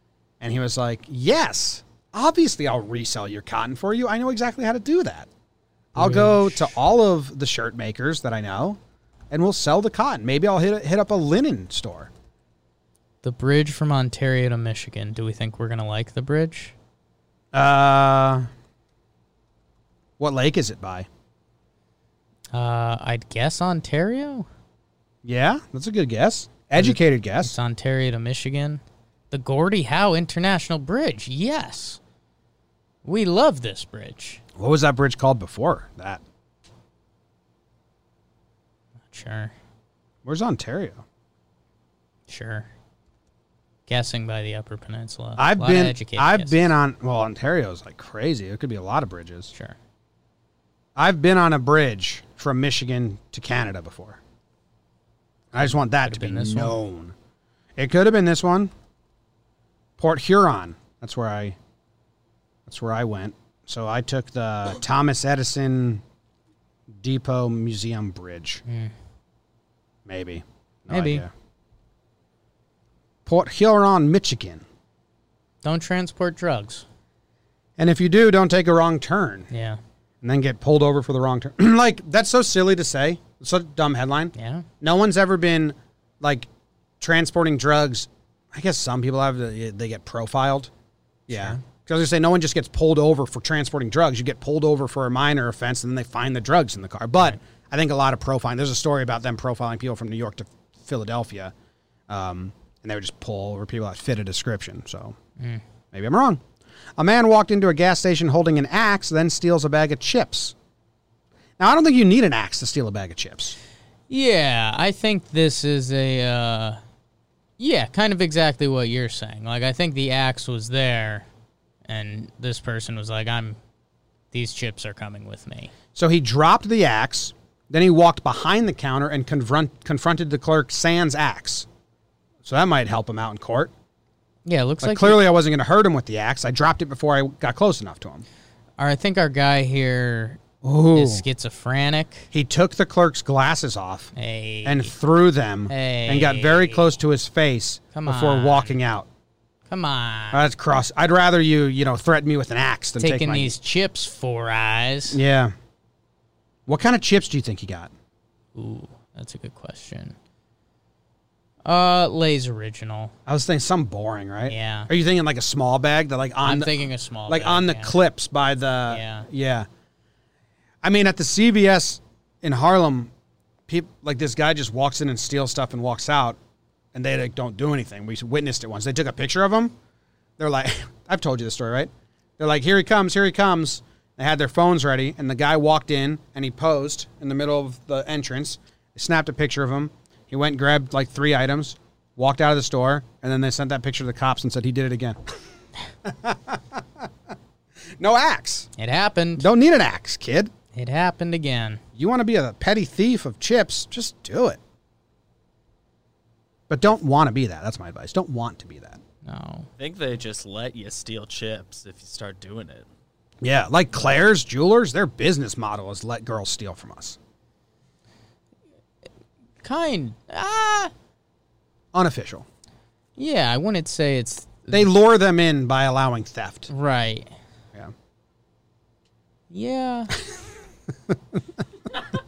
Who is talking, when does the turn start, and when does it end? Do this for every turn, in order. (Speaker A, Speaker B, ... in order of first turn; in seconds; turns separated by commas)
Speaker A: 0.4-5.3, Speaker A: 5.9-8.8, Speaker B: 6.0-6.7, Speaker A: 9.3-12.1, Speaker B: 13.2-16.7, Speaker A: 17.5-18.5, Speaker A: 20.2-21.1, Speaker B: 22.5-24.5, Speaker A: 25.2-27.5, Speaker B: 26.8-32.0, Speaker B: 33.0-34.4, Speaker A: 34.5-36.2, Speaker B: 39.1-39.5, Speaker A: 40.2-41.0, Speaker B: 42.3-42.7, Speaker B: 43.9-46.7, Speaker A: 45.4-49.5, Speaker A: 51.0-54.2, Speaker A: 55.5-57.1, Speaker B: 55.5-56.8, Speaker A: 57.8-58.7, Speaker A: 60.0-61.6, Speaker A: 62.6-66.0, Speaker A: 67.0-68.6, Speaker B: 68.7-68.9, Speaker A: 70.0-71.3, Speaker B: 70.9-71.2, Speaker A: 73.2-74.6, Speaker B: 75.6-76.8, Speaker A: 77.8-79.5, Speaker B: 79.5-79.8, Speaker A: 80.2-86.5, Speaker B: 84.3-84.7, Speaker A: 87.0-90.7, Speaker A: 91.3-101.5, Speaker B: 91.3-91.6, Speaker A: 102.1-105.2, Speaker A: 105.9-106.4, Speaker A: 107.0-110.5, Speaker A: 111.6-113.6, Speaker B: 114.1-116.8, Speaker B: 117.6-121.3, Speaker B: 121.9-123.6, Speaker B: 124.3-125.7, Speaker A: 125.9-131.7, Speaker A: 132.4-133.7, Speaker B: 134.4-135.3, Speaker A: 134.8-138.2, Speaker B: 138.8-140.4, Speaker A: 140.6-141.2, Speaker B: 140.9-142.3, Speaker A: 142.3-144.1, Speaker B: 144.2-144.9, Speaker A: 144.6-149.1, Speaker B: 145.7-146.9, Speaker B: 147.9-148.8, Speaker B: 149.7-150.4, Speaker A: 150.3-153.5, Speaker B: 153.0-155.2, Speaker A: 155.1-155.5, Speaker A: 156.7-157.9, Speaker B: 158.5-160.1, Speaker B: 161.7-163.1, Speaker A: 163.2-169.7, Speaker B: 164.5-164.9, Speaker B: 166.4-168.0, Speaker B: 168.9-169.3, Speaker A: 170.8-173.1, Speaker A: 173.7-176.4, Speaker A: 176.9-179.7, Speaker A: 180.4-195.3, Speaker A: 196.0-197.0, Speaker A: 198.0-198.7, Speaker B: 198.8-199.5, Speaker A: 199.4-200.5, Speaker B: 200.7-201.8, Speaker A: 202.0-204.6, Speaker A: 206.7-209.0, Speaker B: 209.2-209.7, Speaker C: 209.8-212.9, Speaker A: 213.4-217.2, Speaker B: 219.6-220.9, Speaker A: 221.9-222.4, Speaker B: 223.2-224.9, Speaker A: 224.7-226.7, Speaker B: 226.7-227.3, Speaker B: 229.5-230.2